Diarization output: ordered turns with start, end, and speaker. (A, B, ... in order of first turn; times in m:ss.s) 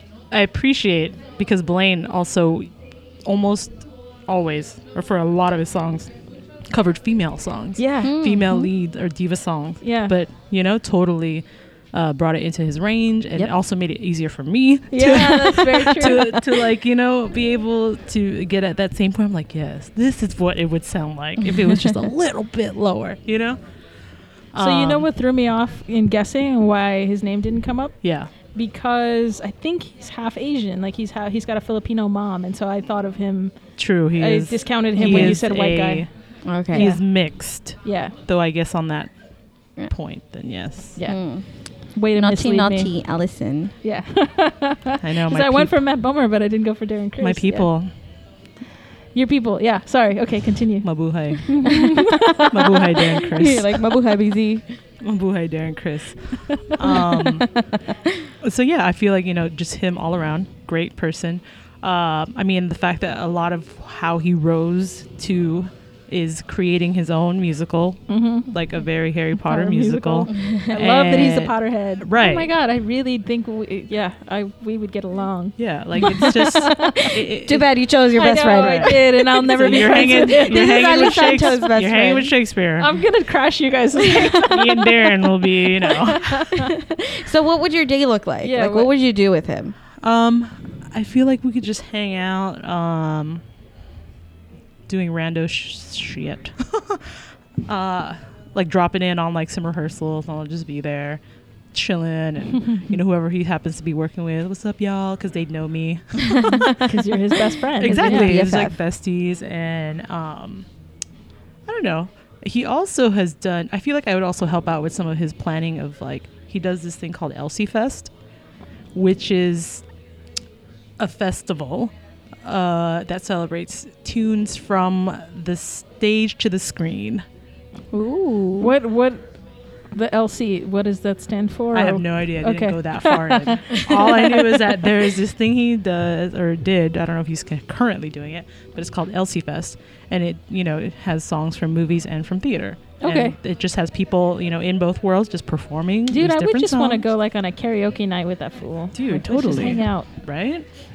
0:00.3-0:02.7 A
0:03.2-0:06.1 A
0:06.7-0:23.6 A
0:07.8-0:08.6 B
0:08.0-0:08.6 C
0:09.8-0:10.1 B
0:14.9-0:16.4 B
0:24.5-0:25.0 A
0:24.6-0:27.9 B
0:28.0-0:28.3 A
0:28.5-0:33.6 B
0:33.8-0:36.1 A
0:34.1-0:36.0 B
0:35.0-0:35.4 C
0:36.4-0:36.9 C
0:36.7-0:39.1 A
0:36.7-0:37.0 B
0:37.8-0:38.1 B
0:39.9-0:41.0 A
0:41.0-0:41.2 B
0:41.0-0:41.4 C
0:41.9-0:42.9 B
0:42.1-0:43.7 C
0:43.8-0:47.7 B
0:45.0-0:45.8 A
0:47.2-0:47.9 A
0:49.1-0:50.9 B
0:50.8-0:53.8 A
0:51.4-0:53.2 B
0:51.8-0:52.1 C
0:53.2-0:54.8 C
0:55.0-0:57.6 A
0:56.8-0:58.2 C
0:58.4-1:12.5 A
1:08.1-1:08.5 B
1:09.4-1:17.2 B
1:10.3-1:10.8 C
1:15.6-1:17.7 A
1:17.0-1:22.3 C
1:18.1-1:21.0 B
1:18.5-1:23.0 A
1:22.8-1:24.9 B
1:24.4-1:26.5 A
1:25.8-1:26.7 B
1:26.6-1:29.8 C
1:28.4-1:28.9 B
1:30.0-1:33.4 A
1:34.9-1:41.2 A
1:41.7-1:46.8 A
1:46.2-1:46.6 C
1:46.6-1:48.4 B
1:47.8-1:50.7 A
1:48.0-1:48.8 C
1:51.6-1:58.1 A
1:58.9-1:59.8 A
2:01.0-2:01.9 A
2:02.4-2:07.2 A
2:07.9-2:08.7 C
2:08.6-2:09.3 B
2:09.9-2:14.8 B
2:11.7-2:27.0 A
2:23.0-2:23.4 B
2:26.1-2:30.1 B
2:28.9-2:30.7 A